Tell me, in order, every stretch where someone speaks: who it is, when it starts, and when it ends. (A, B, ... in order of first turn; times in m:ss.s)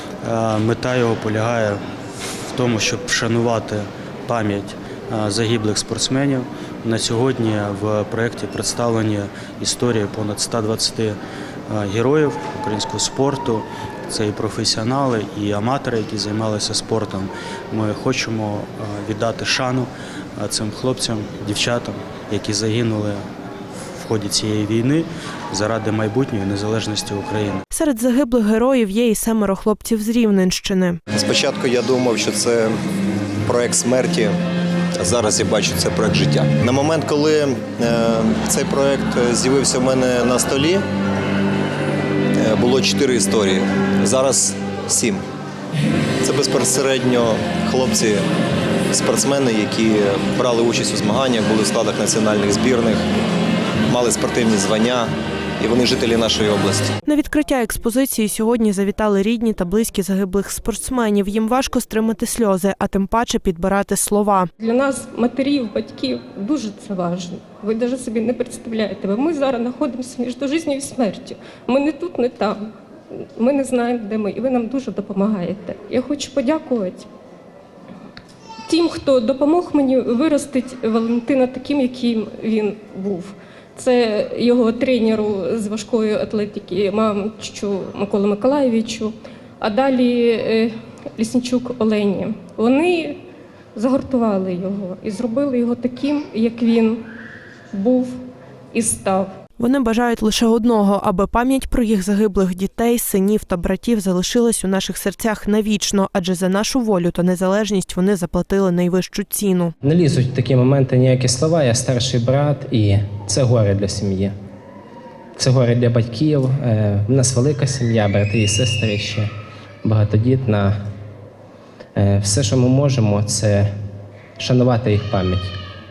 0:00.2-0:01.8 A
0:02.5-0:11.2 A
0:11.7-0:23.2 A
0:24.0-0:27.6 A
0:27.7-0:31.0 B
0:31.1-0:32.8 C
0:33.4-0:34.4 C
0:35.0-0:40.8 C
0:42.3-0:45.2 C
0:46.2-0:48.2 C
0:48.9-0:53.0 C
0:53.9-0:56.9 C
0:57.0-1:04.5 B
1:04.6-1:17.1 D
1:18.7-1:33.2 D
1:33.7-1:37.0 D
1:37.7-1:38.2 D
1:38.7-1:39.3 D
1:39.6-1:49.7 B
1:49.8-1:54.3 E
1:55.4-1:59.3 E
1:59.8-2:00.8 E
2:01.9-2:03.7 E
2:04.4-2:05.5 E